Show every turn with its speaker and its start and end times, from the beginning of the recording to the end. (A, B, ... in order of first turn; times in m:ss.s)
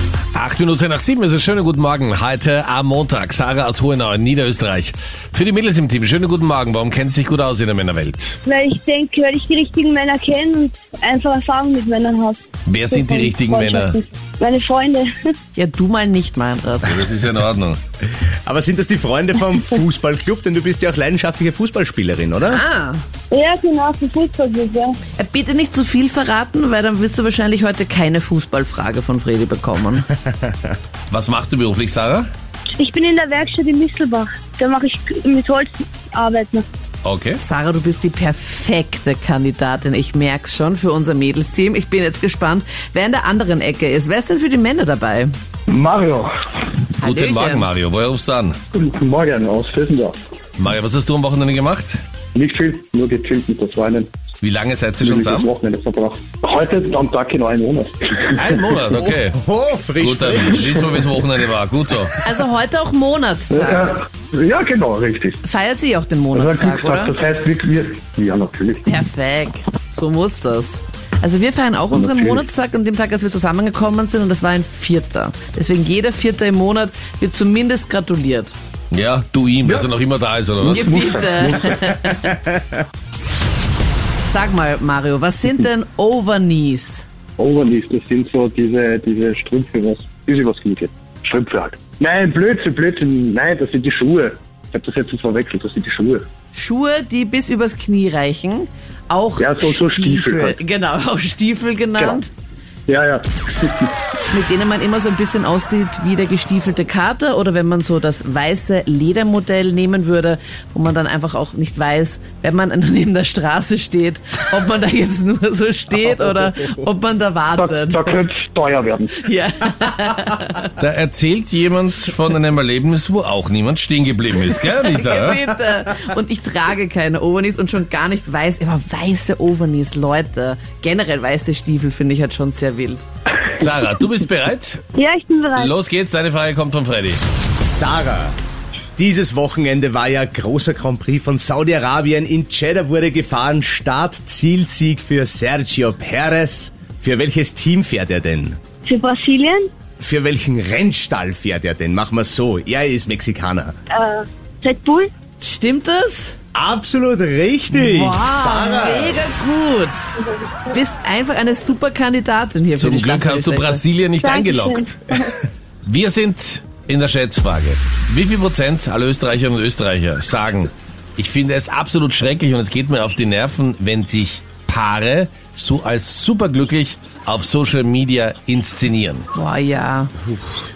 0:00.3-0:08.4 A
0:08.4-0:15.1 B
0:12.7-0:14.0 A
0:15.5-0:17.1 C
0:16.8-0:17.8 A
0:18.1-0:22.6 D
0:22.4-0:23.0 C
0:23.3-0:25.0 B
0:25.2-0:30.1 C
0:31.1-0:32.3 A
0:32.8-0:36.6 B
0:37.0-0:37.4 A
0:37.4-0:45.3 C
0:45.7-0:46.3 E
0:47.0-0:47.7 C
0:47.0-0:48.6 A
0:48.7-0:50.2 E
0:50.6-0:52.0 A
0:52.3-0:54.1 E
0:54.4-0:55.5 A
0:55.0-0:58.6 E
0:58.4-0:59.4 A
0:58.9-1:00.9 D
1:00.0-1:02.2 A
1:02.2-1:04.0 C
1:03.5-1:05.4 E
1:05.4-1:07.1 C
1:06.3-1:08.9 E
1:08.8-1:18.5 C
1:11.9-1:12.4 E
1:18.9-1:20.9 A
1:20.6-1:21.8 E
1:20.6-1:22.4 C
1:24.3-1:27.1 C
1:27.4-1:36.3 E
1:36.5-1:42.3 C
1:39.4-1:40.6 E
1:42.9-1:43.9 E
1:44.3-1:58.1 C
1:57.6-1:59.2 E
1:59.2-2:00.7 C
2:00.8-2:05.4 A
2:04.5-2:13.0 C
2:13.5-2:14.8 A
2:15.0-2:15.7 B
2:15.5-2:17.2 A
2:17.6-2:18.3 D
2:19.0-2:28.6 D
2:28.8-2:29.7 B
2:30.0-2:33.7 D
2:33.9-2:35.1 B
2:35.4-2:36.4 C
2:36.5-2:39.2 D
2:37.7-2:40.1 C
2:40.7-2:43.8 C
2:42.8-2:45.1 A
2:44.2-2:45.4 B
2:45.8-2:59.2 A
2:59.3-3:00.1 C